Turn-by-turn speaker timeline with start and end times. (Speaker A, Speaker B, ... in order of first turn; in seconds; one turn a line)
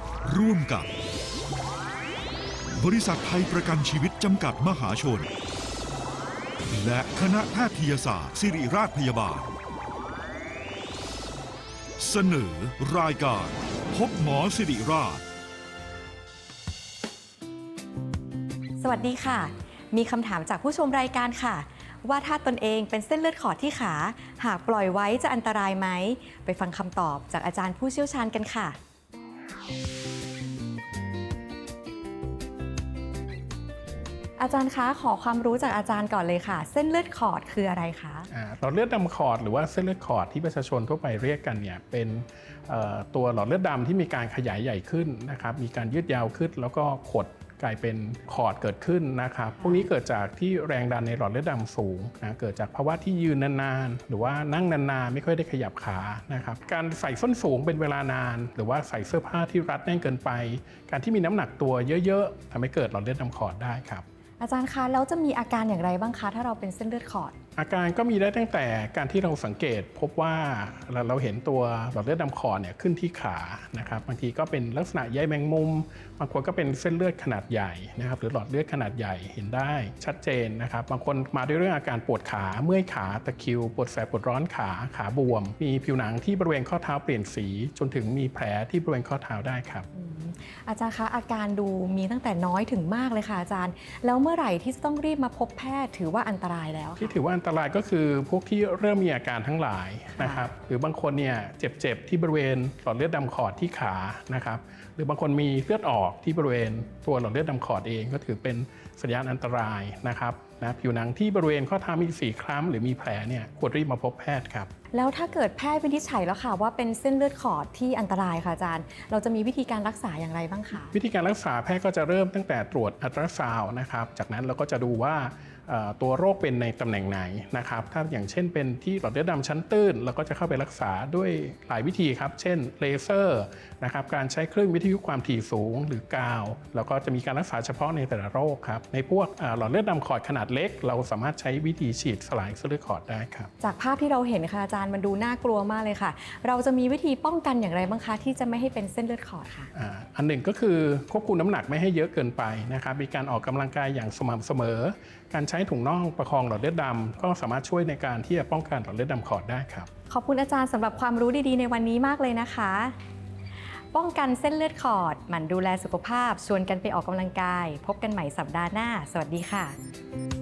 Speaker A: 0.2-0.9
Speaker A: 2.8-5.3
Speaker A: 6.7-9.5
Speaker A: 12.0-15.2
Speaker B: 18.8-28.8
Speaker B: 34.4-38.3
Speaker C: 38.3-64.0
Speaker B: 49.6-49.9
Speaker B: 64.4-67.3
Speaker C: 67.6-89.9
Speaker B: 89.9-97.2
Speaker C: 97.0-114.7
Speaker B: 100.2-100.5
Speaker B: 114.9-121.0
Speaker C: 120.9-143.5
Speaker B: 143.6-149.7
Speaker C: 149.7-159.9
Speaker B: 160.1-163.0
Speaker B: 163.9-169.8